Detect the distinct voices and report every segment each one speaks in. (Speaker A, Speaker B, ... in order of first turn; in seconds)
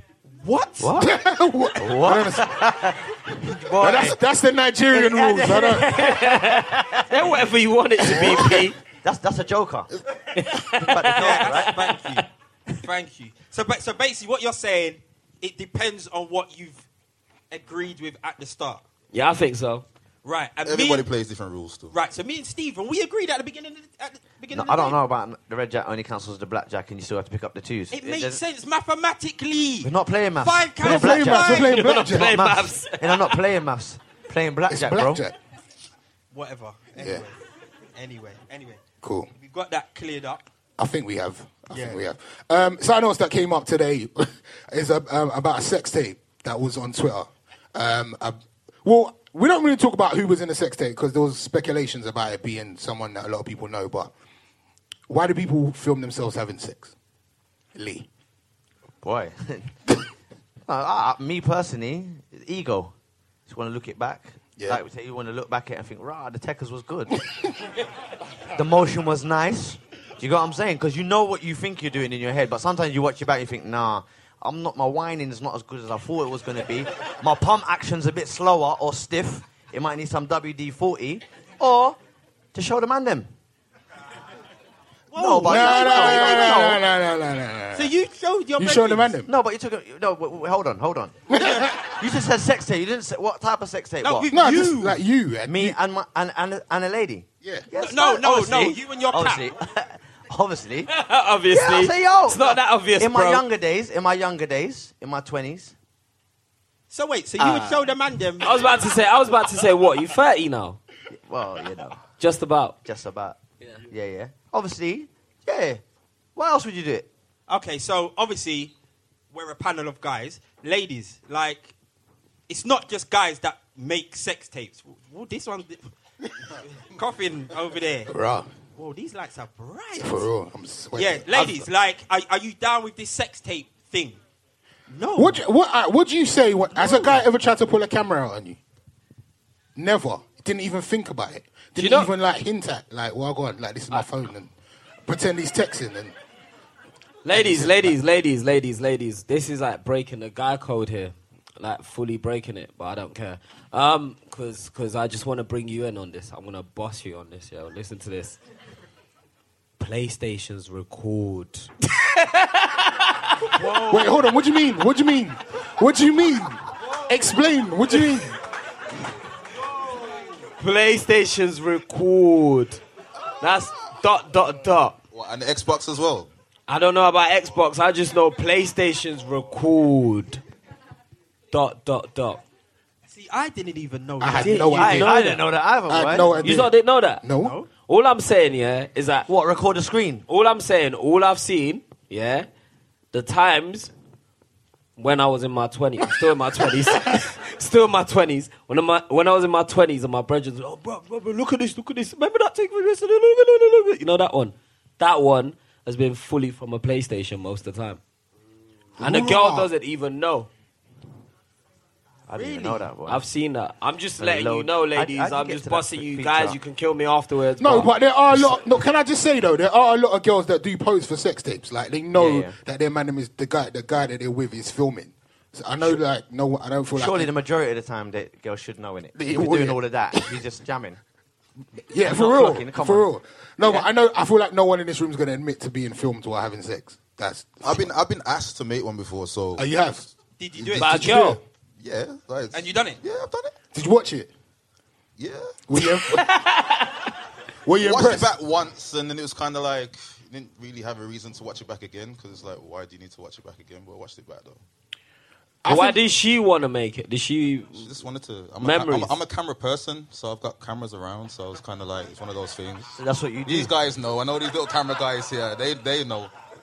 Speaker A: 0.4-1.0, 11.1-12.3, 12.8-16.8, 17.5-18.8, 20.2-21.1, 21.9-25.0, 27.9-31.9, 36.3-37.4, 38.0-38.8, 39.4-40.4, 41.7-42.0, 85.1-86.8, 87.7-89.2, 91.3-91.8, 94.0-95.0, 97.8-99.5, 106.9-108.9, 117.5-118.7, 119.3-121.7, 122.5-125.9, 126.5-128.1, 128.8-130.3, 130.9-134.2, 134.9-135.4, 136.8-137.1, 183.1-185.1, 187.4-187.7, 212.3-212.9, 240.4-240.9, 242.5-243.0
Speaker B: 0.8-1.2, 1.8-4.2, 4.9-7.3, 8.1-9.9, 10.8-11.7, 24.5-28.4, 29.8-35.2, 59.0-59.8, 60.7-63.0, 63.5-67.3, 68.5-82.0, 82.5-83.3, 85.1-86.8, 89.3-94.3, 95.5-100.9, 101.5-105.7, 107.4-107.9, 111.1-112.0, 112.8-115.8, 116.4-117.1, 131.3-131.7, 184.8-186.4, 189.3-190.2, 212.3-213.2, 214.2-216.6, 222.1-222.6, 226.9-231.0, 232.0-233.1, 263.0-263.7
Speaker C: 1.0-2.9, 3.7-6.0, 30.8-32.3, 34.7-35.4, 37.0-37.2, 39.0-39.3, 40.8-54.1, 55.1-56.9, 57.7-58.1, 64.6-64.8, 85.5-87.9, 88.6-89.3, 91.3-91.7, 94.3-95.8, 128.1-128.5, 130.0-131.2, 135.2-138.6, 139.8-144.5, 145.1-146.2, 147.3-148.0, 163.7-168.4, 184.2-185.1, 185.9-187.6, 209.0-209.7, 217.6-227.3, 229.2-230.4, 231.9-237.9, 239.6-240.1, 240.7-241.4, 243.7-244.3, 245.7-246.4, 247.7-248.3, 255.6-256.0
Speaker D: 5.9-8.8, 10.3-12.3, 19.1-19.9, 31.6-33.4, 100.9-103.4, 108.4-110.8, 112.2-112.8, 141.8-142.1, 147.2-158.4, 159.8-164.0, 170.6-172.8, 173.4-175.0, 176.7-180.4, 181.5-182.4, 184.4-185.4, 186.4-187.2, 187.9-189.3, 190.3-192.5, 193.1-193.9, 195.0-208.0, 209.0-210.5, 213.1-217.9, 240.8-241.4, 246.1-247.1, 255.7-257.9, 258.6-259.2
Speaker E: 20.6-21.9, 175.1-176.3, 237.6-239.7, 240.6-240.9, 241.8-243.5, 245.2-245.6, 247.8-254.6, 257.8-266.3